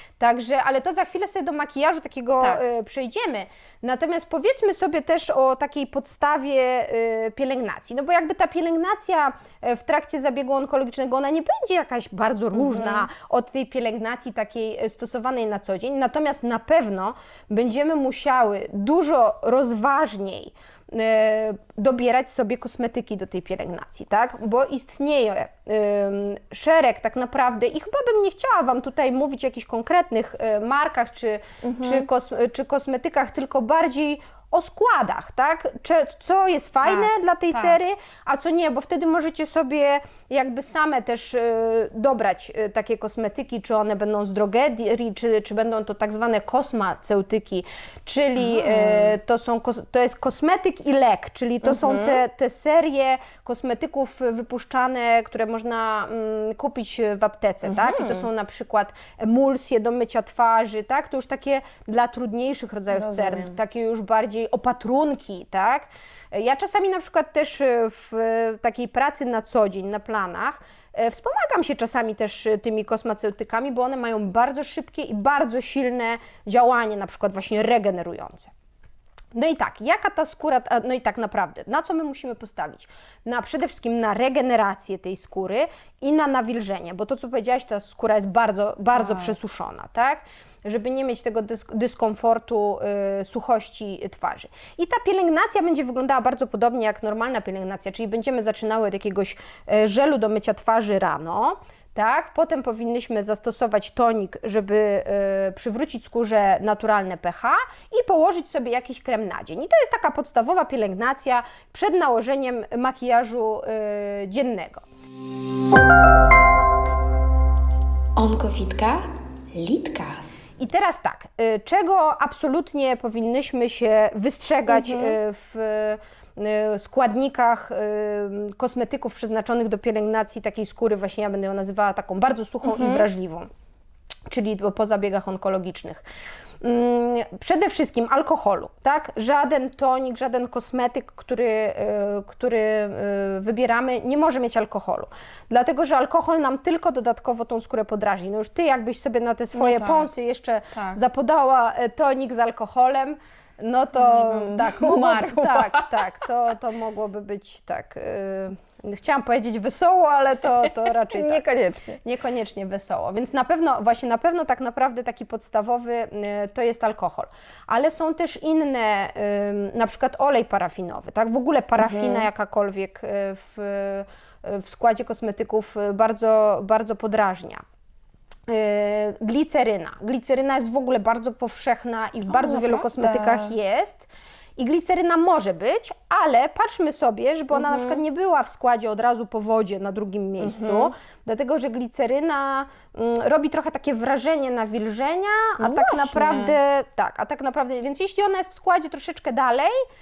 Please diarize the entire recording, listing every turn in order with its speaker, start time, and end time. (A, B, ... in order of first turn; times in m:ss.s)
0:00.2-1:18.5 A
0:12.5-0:13.1 B
0:31.6-0:32.1 B
0:36.8-0:37.8 B
0:48.4-0:49.1 B
0:51.6-0:52.2 B
0:57.6-0:58.2 B
1:02.9-1:03.6 B
1:19.3-1:54.8 A
1:28.9-1:29.3 B
1:58.2-2:00.1 C
2:00.6-2:13.5 A
2:04.7-2:05.2 B
2:12.6-2:13.0 B
2:14.3-2:16.0 A
2:16.6-2:41.4 A
2:29.5-2:30.1 B
2:30.7-2:31.0 B
2:34.0-2:36.0 B
2:41.1-2:42.0 B
2:42.0-2:57.6 A
2:51.8-2:52.3 B
2:58.5-3:19.7 A
3:02.2-3:03.5 B
3:07.5-3:08.0 B
3:10.4-3:10.9 B
3:15.6-3:16.6 B